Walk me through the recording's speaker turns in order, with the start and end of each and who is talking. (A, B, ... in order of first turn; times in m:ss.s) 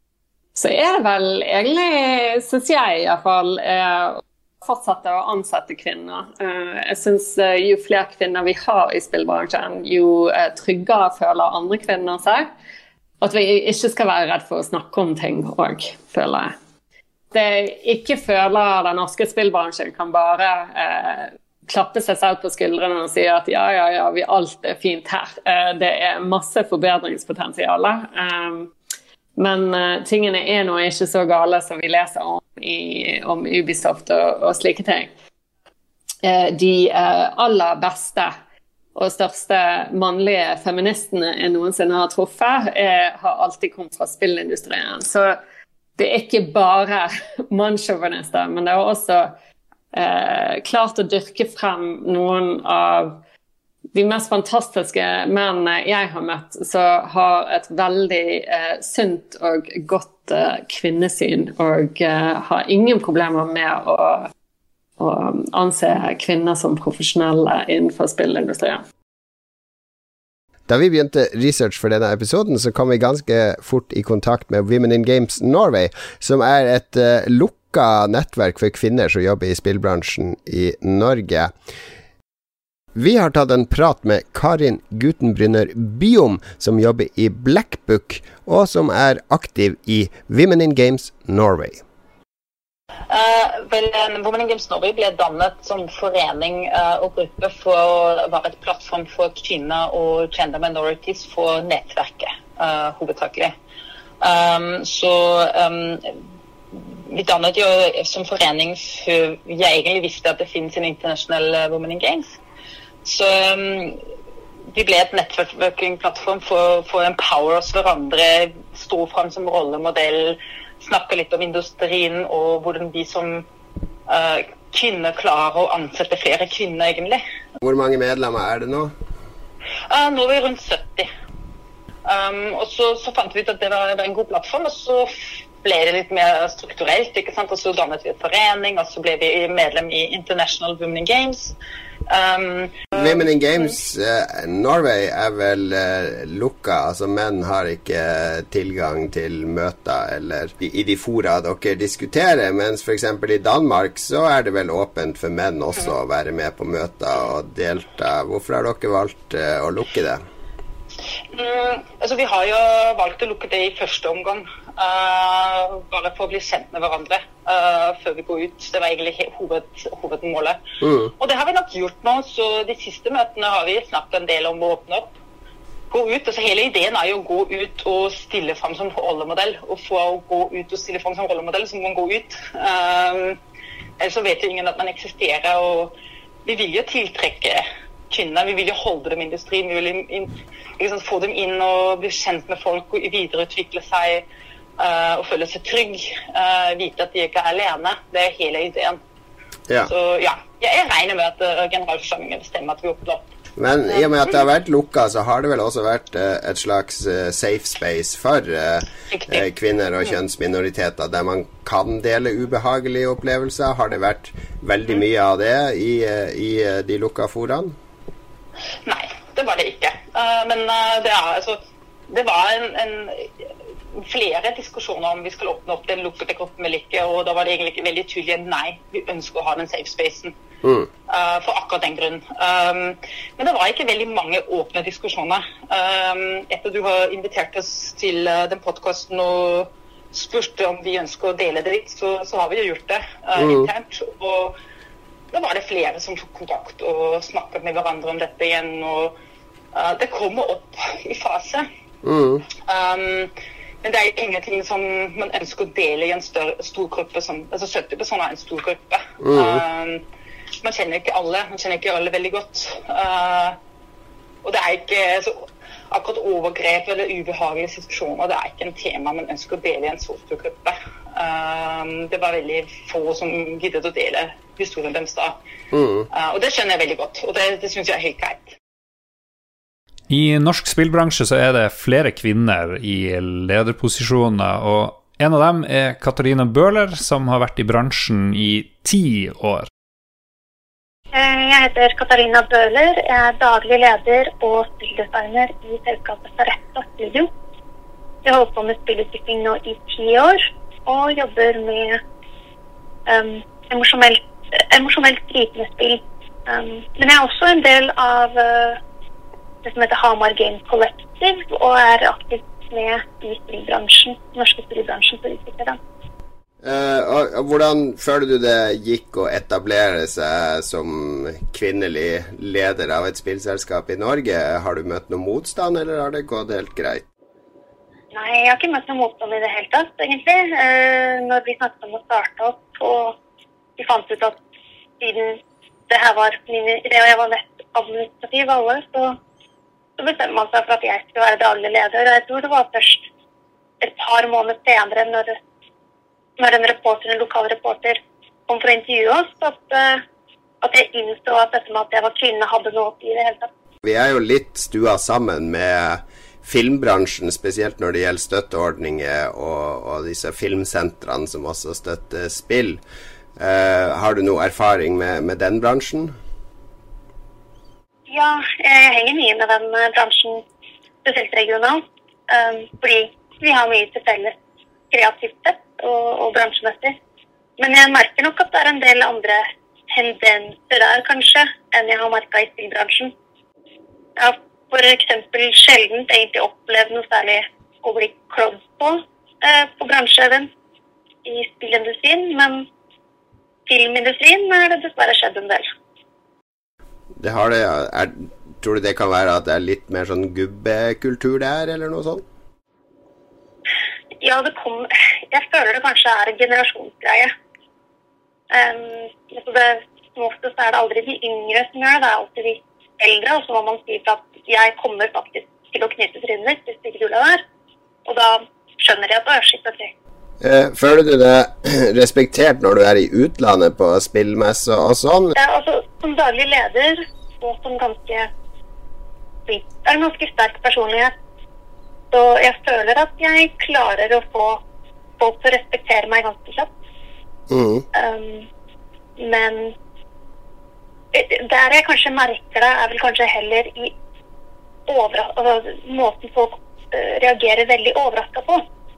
0:00.6-0:12.5 A
0:13.2-0:16.6 A
0:17.3-0:28.7 A
0:29.4-0:35.1 A
0:36.2-0:38.4 A
0:38.9-0:45.4 A
0:46.0-0:49.3 A
0:49.9-0:53.2 A
0:53.9-1:04.3 A
1:05.0-1:08.8 A
1:10.7-1:21.5 B
1:22.9-1:31.8 B
1:33.1-1:43.5 C
1:44.2-1:46.2 C
1:46.7-1:52.4 C
1:53.0-1:54.0 C
1:54.7-2:03.5 C
2:04.1-2:07.2 C
2:07.6-2:08.9 B
2:09.9-2:11.1 C
2:12.0-2:21.6 C
2:22.1-2:23.2 C
2:22.9-2:40.2 B
2:41.3-2:50.6 C
2:50.8-2:51.1 B
2:51.2-2:55.2 C
2:55.9-3:03.4 C
3:04.0-3:05.9 C
3:06.4-3:14.3 C
3:14.8-3:19.0 C
3:19.8-3:23.3 C
3:23.6-3:37.8 B
3:23.9-3:24.4 C
3:29.1-3:29.5 C
3:38.9-3:50.4 C
3:51.1-4:04.6 C
4:03.4-4:03.7 B
4:05.3-4:09.2 C
4:09.7-4:11.6 C
4:12.0-4:12.4 B
4:12.7-4:20.0 C
4:19.2-4:19.6 B
4:20.6-4:23.6 C
4:24.4-4:35.4 C
4:35.7-4:36.1 B
4:36.1-4:38.6 C
4:40.1-4:49.7 D
4:51.1-4:57.3 E
4:58.2-5:02.0 E
5:03.1-5:08.8 E
5:09.6-5:15.8 E
5:16.6-5:27.0 B
5:28.1-5:33.2 E
5:33.8-5:34.4 E
5:35.0-5:39.2 E
5:40.0-5:43.0 E
5:43.8-5:45.4 E
5:46.4-5:50.0 E
5:50.6-5:53.5 E
5:53.8-6:02.8 B
6:03.4-6:06.1 B
6:08.1-6:10.4 E
6:11.0-6:14.4 E
6:14.9-6:17.0 E
6:17.6-6:23.1 E
6:24.2-6:30.5 E
6:31.2-6:32.7 E
6:33.7-6:35.7 E
6:37.2-6:42.2 B
6:44.2-6:47.3 E
6:48.5-6:57.4 E
6:58.1-6:59.9 E
7:00.4-7:05.4 B
7:05.4-7:08.3 E
7:09.5-7:11.1 E
7:12.1-7:14.6 E
7:15.2-7:16.7 E
7:17.5-7:17.8 B
7:17.9-7:18.5 E
7:19.2-7:19.8 E
7:21.1-7:23.9 E
7:24.9-7:28.6 E